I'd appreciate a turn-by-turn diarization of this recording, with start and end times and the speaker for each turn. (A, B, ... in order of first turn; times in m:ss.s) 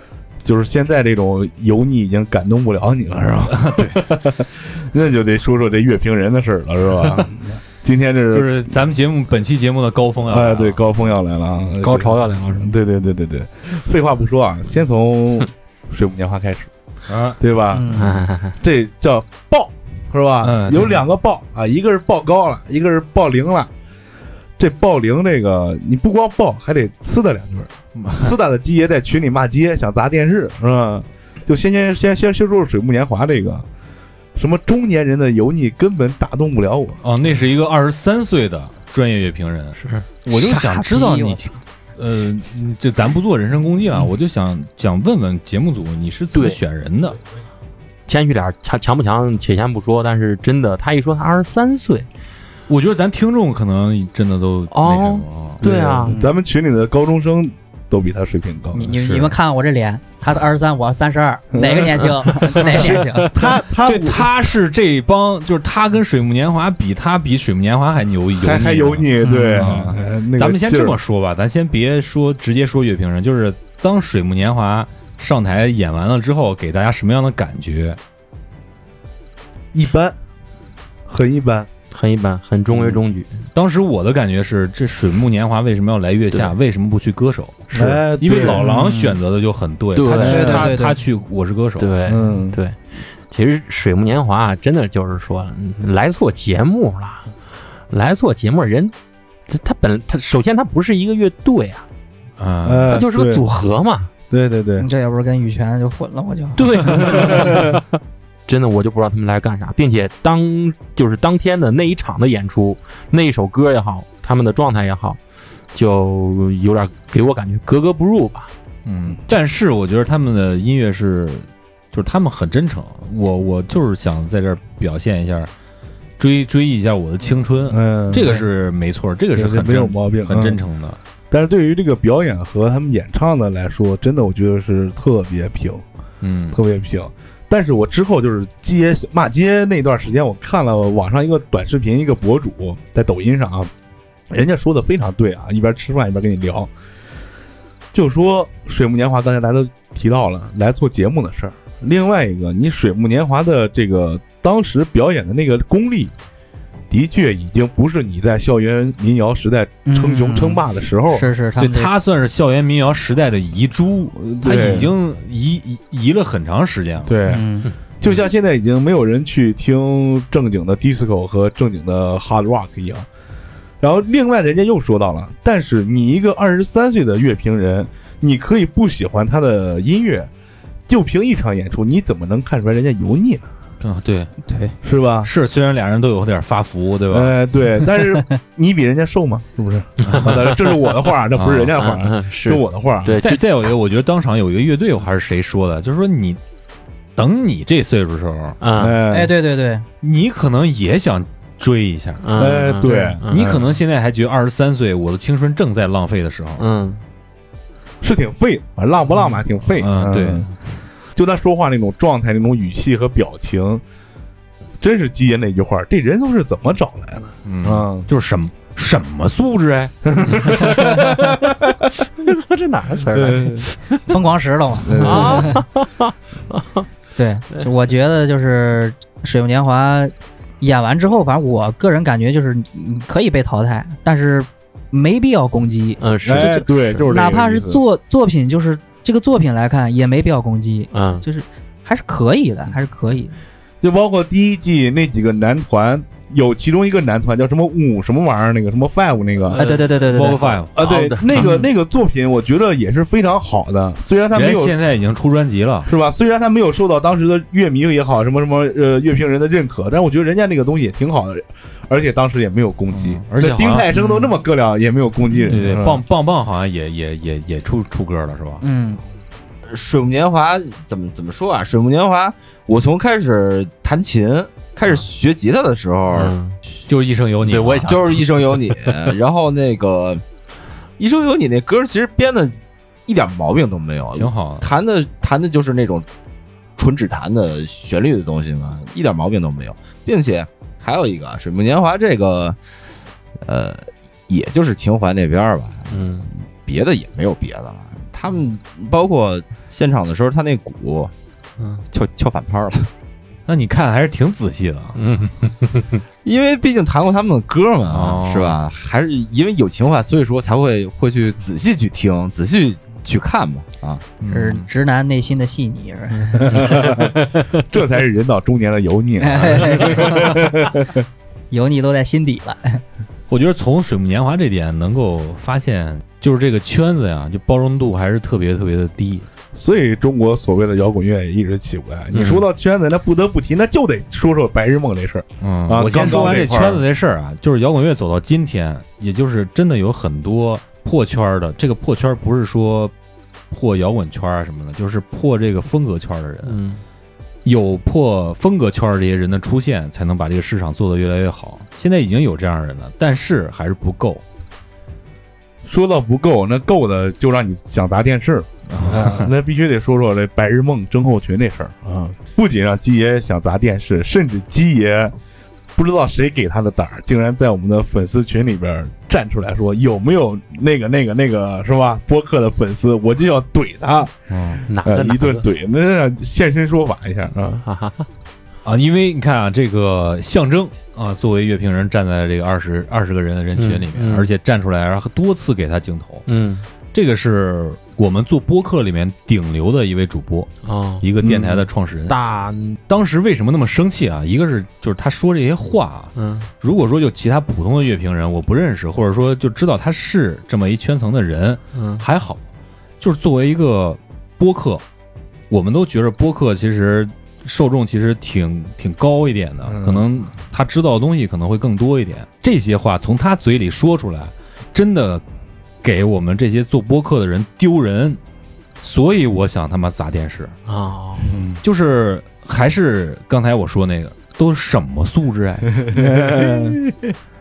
0:00.4-0:08.6 A
0:03.5-0:04.0 B
0:08.3-0:10.8 B
0:10.3-0:16.7 A
0:11.8-0:12.7 C
0:17.1-0:17.4 B
0:17.4-0:18.0 A
0:17.7-0:18.1 D
0:18.0-0:18.6 C
0:18.6-0:23.7 A
0:20.4-0:21.0 B
0:24.6-0:33.7 A
0:28.0-0:28.3 B
0:34.4-0:37.0 A
0:37.0-0:47.2 B
0:39.8-0:40.1 C
0:40.3-0:41.4 D
0:46.3-0:46.6 C
0:48.1-0:52.1 C
0:52.7-0:55.6 B
0:54.7-0:56.2 C
0:55.6-0:59.0 A
0:56.1-0:56.3 D
0:58.8-1:03.3 D
1:01.5-1:04.3 A
1:03.8-1:09.1 B
1:08.4-1:11.0 A
1:09.2-1:09.8 D
1:09.6-1:18.0 B
1:19.7-1:20.2 A
1:21.1-1:21.7 A
1:21.9-1:23.4 C
1:23.5-1:31.9 B
1:27.7-1:28.6 A
1:27.8-1:28.6 C
1:28.6-1:29.2 D
1:30.0-1:30.8 C
1:30.2-1:31.0 D
1:31.8-1:32.8 C
1:32.1-1:32.6 A
1:33.3-1:37.3 C
1:37.9-1:38.9 C
1:39.5-1:41.9 C
1:42.4-1:43.0 B
1:42.6-1:43.4 A
1:42.9-1:44.1 C
1:44.3-1:44.9 A
1:44.8-1:47.4 D
1:46.6-1:47.8 C
1:48.5-1:55.2 C
1:55.7-1:58.5 C
1:58.8-2:05.5 B
2:06.2-2:11.0 B
2:07.7-2:08.3 A
2:09.4-2:10.6 A
2:11.3-2:15.8 A
2:16.2-2:16.6 B
2:16.5-2:23.7 A
2:24.3-2:26.7 A
2:27.9-2:36.1 A
2:36.9-2:41.3 A
2:39.9-2:41.9 D
2:41.6-2:47.1 B
2:44.2-2:44.9 A
2:47.1-2:47.4 A
2:47.3-2:47.7 D
2:48.0-2:53.1 A
2:53.8-3:00.3 A
3:00.9-3:03.4 A
3:03.8-3:04.3 B
3:04.5-3:04.7 D
3:04.8-3:05.3 A
3:05.2-3:07.4 B
3:07.1-3:13.2 A
3:10.1-3:10.3 B
3:10.1-3:10.8 C
3:11.4-3:11.7 B
3:11.8-3:13.4 C
3:13.2-3:16.4 B
3:17.2-3:18.6 B
3:18.6-3:19.0 C
3:18.8-3:19.3 A
3:19.1-3:19.9 D
3:20.0-3:22.5 B
3:22.2-3:23.6 C
3:22.4-3:23.6 A
3:23.3-3:26.6 B
3:26.6-3:27.0 C
3:28.0-3:30.5 A
3:29.8-3:30.5 B
3:31.2-3:33.8 A
3:34.8-3:38.1 A
3:37.5-3:40.6 B
3:40.1-3:41.4 A
3:40.3-3:40.6 C
3:42.2-3:44.0 C
3:43.1-3:43.7 A
3:44.1-3:45.6 D
3:44.8-3:45.5 A
3:45.0-3:46.9 C
3:47.2-4:03.4 D
3:56.0-3:57.0 C
3:56.2-3:57.8 A
4:00.9-4:01.2 C
4:03.8-4:09.6 A
4:09.5-4:11.5 C
4:09.6-4:10.6 D
4:10.1-4:10.8 B
4:10.8-4:14.8 A
4:11.4-4:11.7 D
4:14.3-4:15.9 B
4:15.8-4:26.0 A
4:22.9-4:23.9 B
4:24.0-4:24.3 D
4:25.4-4:28.6 B
4:28.6-4:29.0 D
4:29.7-4:36.4 E
4:36.1-4:36.6 C
4:36.9-4:38.2 B
4:37.5-4:38.2 C
4:37.9-4:40.2 E
4:41.0-4:42.6 E
4:43.1-4:46.1 E
4:44.2-4:44.7 B
4:46.8-4:52.6 E
4:53.4-5:01.1 E
4:55.9-4:56.3 C
5:01.9-5:02.9 E
5:03.5-5:05.0 B
5:05.0-5:06.0 C
5:06.2-5:14.1 E
5:07.9-5:08.6 B
5:14.2-5:14.7 B
5:14.3-5:16.6 D
5:16.4-5:21.0 A
5:19.2-5:20.3 D
5:21.5-5:22.8 D
5:23.3-5:29.3 B
5:29.5-5:36.8 A
5:32.1-5:32.4 C
5:35.4-5:42.9 B
5:43.5-5:46.6 B
5:46.4-5:46.8 C
5:47.4-5:54.2 B
5:55.6-6:05.2 A
5:58.7-5:59.3 B
6:05.8-6:17.6 A
6:14.7-6:15.4 C
6:17.6-6:18.1 C
6:18.6-6:26.2 B
6:23.6-6:24.3 C
6:26.3-6:26.6 C
6:26.9-6:30.5 B
6:30.6-6:32.8 C
6:31.0-6:32.2 B
6:32.9-6:42.4 B
6:36.2-6:36.5 C
6:41.7-6:42.0 C
6:43.0-6:44.8 B
6:45.5-6:55.2 B
6:49.7-6:50.0 A
6:55.8-6:58.2 B
6:58.8-7:00.5 B
7:00.7-7:01.3 C
7:01.3-7:01.6 A
7:01.6-7:06.0 B
7:05.9-7:06.8 A